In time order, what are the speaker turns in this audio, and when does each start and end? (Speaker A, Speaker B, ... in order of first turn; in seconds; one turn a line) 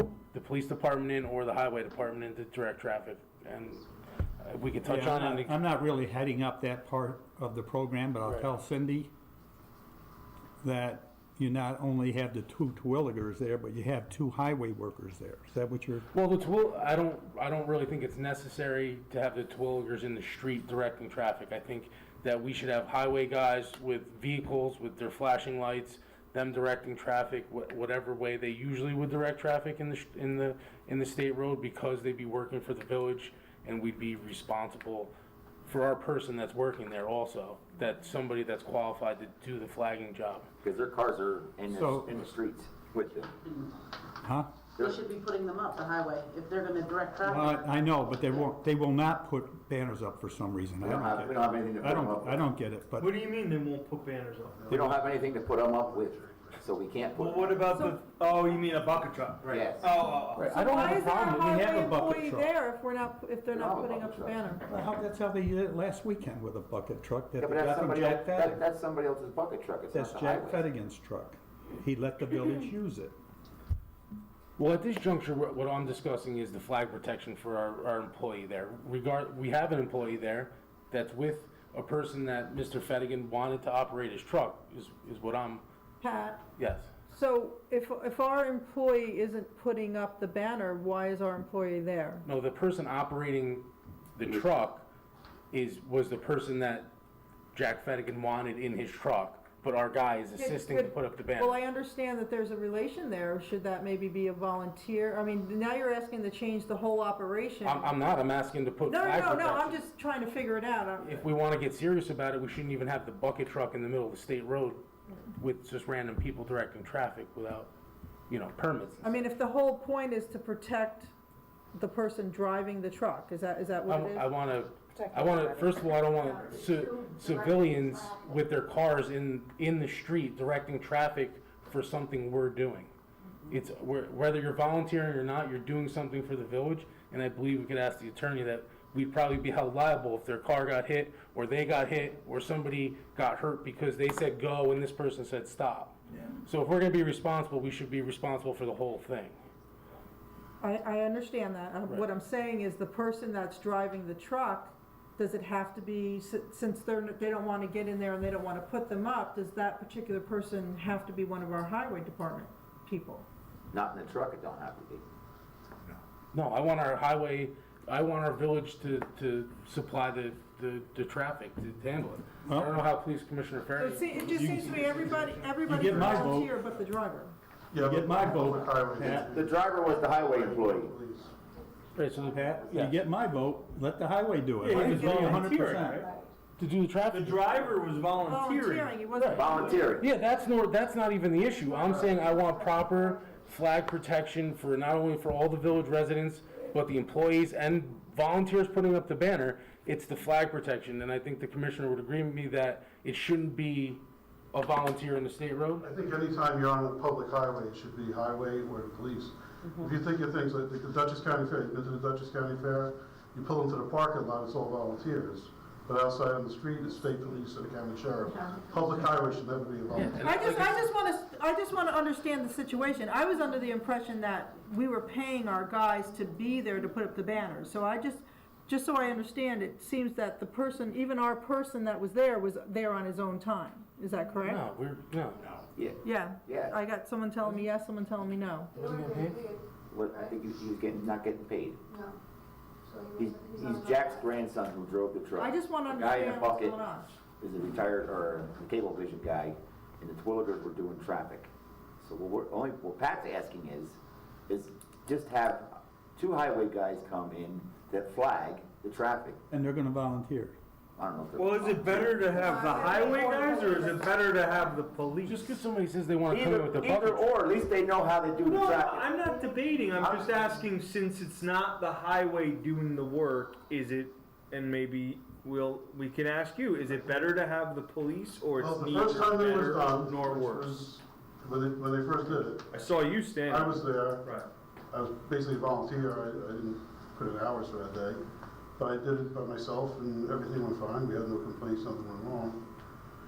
Speaker A: 0.3-3.8
Speaker A: 4.4-5.5
Speaker B: 4.8-9.1
Speaker B: 10.6-16.1
Speaker A: 16.1-35.1
Speaker A: 35.6-40.5
Speaker C: 40.6-43.3
Speaker B: 41.7-42.1
Speaker D: 43.4-43.7
Speaker B: 44.2-44.5
Speaker D: 44.8-47.6
Speaker B: 47.2-53.1
Speaker C: 50.8-52.4
Speaker E: 53.0-55.0
Speaker F: 54.6-56.5
Speaker C: 54.7-57.5
Speaker E: 57.1-60.5
Speaker G: 57.7-58.0
Speaker C: 59.5-60.7
Speaker A: 60.4-61.8
Speaker G: 60.5-64.7
Speaker B: 61.4-62.5
Speaker C: 63.5-64.4
Speaker B: 64.7-68.6
Speaker C: 67.4-70.6
Speaker B: 69.9-73.2
Speaker A: 74.6-85.6
Speaker G: 86.0-86.4
Speaker A: 86.6-86.9
Speaker G: 87.1-92.2
Speaker A: 92.2-94.8
Speaker A: 95.5-96.9
Speaker A: 97.5-101.6
Speaker G: 100.3-108.0
Speaker A: 107.6-109.8
Speaker G: 108.8-111.2
Speaker A: 111.0-114.8
Speaker A: 115.4-117.7
Speaker A: 118.3-119.0
Speaker G: 119.0-121.1
Speaker G: 121.7-124.3
Speaker A: 123.9-132.9
Speaker H: 127.0-127.7
Speaker A: 133.5-149.4
Speaker G: 150.6-163.2
Speaker C: 163.7-165.0
Speaker A: 166.3-175.1
Speaker B: 172.4-172.7
Speaker G: 173.8-177.3
Speaker E: 174.3-176.3
Speaker B: 175.7-176.5
Speaker F: 177.7-181.3
Speaker B: 177.8-179.3
Speaker C: 179.1-180.9
Speaker A: 181.9-182.9
Speaker B: 182.3-186.1
Speaker E: 184.6-186.1
Speaker G: 184.9-185.5
Speaker A: 186.6-187.6
Speaker E: 187.1-189.0
Speaker G: 188.2-190.0
Speaker A: 189.1-205.9
Speaker C: 189.3-190.1
Speaker F: 205.8-220.4
Speaker A: 219.9-220.9
Speaker G: 220.2-234.7
Speaker A: 234.4-235.6
Speaker C: 235.8-236.8
Speaker G: 236.0-238.8
Speaker A: 238.7-239.4
Speaker H: 238.7-240.3
Speaker C: 239.9-241.8
Speaker H: 241.9-242.1
Speaker H: 242.9-244.3
Speaker C: 243.1-251.5
Speaker G: 245.3-247.2
Speaker C: 252.0-259.4
Speaker B: 259.5-260.6
Speaker C: 261.0-262.1
Speaker E: 261.3-265.4
Speaker G: 262.1-264.0
Speaker A: 265.2-267.3
Speaker C: 266.3-269.1
Speaker E: 268.4-280.9
Speaker C: 269.9-270.3
Speaker F: 278.6-282.7
Speaker E: 282.7-284.5
Speaker F: 283.4-284.2
Speaker F: 284.9-288.2
Speaker F: 288.8-292.6